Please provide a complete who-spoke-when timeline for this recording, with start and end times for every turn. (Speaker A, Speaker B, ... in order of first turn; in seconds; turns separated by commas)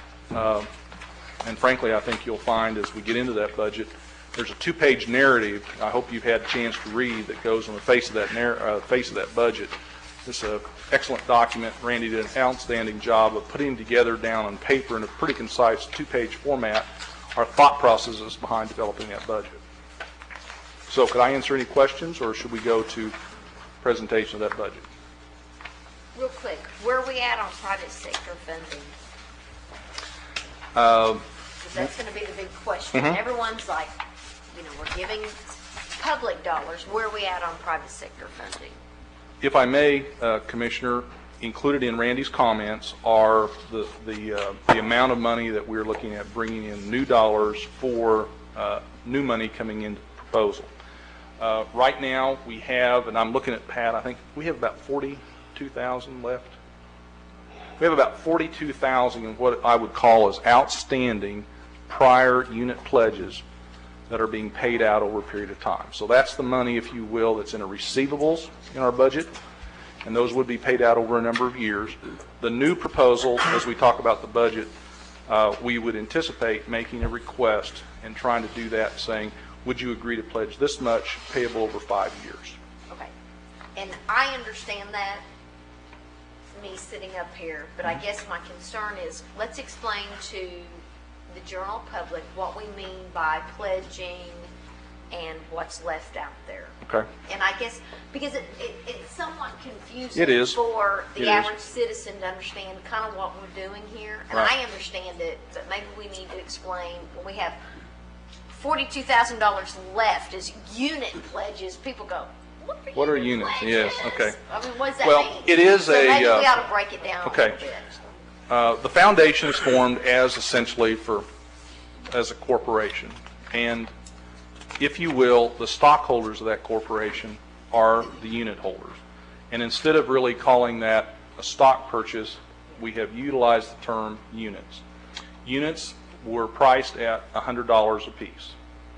Speaker A: 0.3-0.7, Speaker A: 1.4-9.7, Speaker A: 10.2-19.6, Speaker A: 20.9-23.2, Speaker A: 23.8-24.9, Speaker B: 26.1-28.9, Speaker A: 30.8-31.2, Speaker B: 31.6-34.0, Speaker A: 32.9-33.2, Speaker B: 34.5-35.4, Speaker B: 36.0-38.8, Speaker A: 39.4-50.7, Speaker A: 51.4-56.6, Speaker A: 57.8-63.4, Speaker A: 64.1-69.3, Speaker A: 70.0-74.7, Speaker A: 75.3-82.6, Speaker B: 83.8-85.2, Speaker B: 86.5-94.5, Speaker B: 95.1-96.7, Speaker B: 97.3-107.6, Speaker A: 100.2-100.6, Speaker A: 101.2-101.5, Speaker B: 108.5-118.0, Speaker A: 113.0-114.4, Speaker A: 115.0-116.6, Speaker A: 117.2-117.6, Speaker A: 118.5-121.3, Speaker A: 122.1-123.9, Speaker A: 124.8-129.0, Speaker A: 129.5-134.8, Speaker A: 135.4-138.6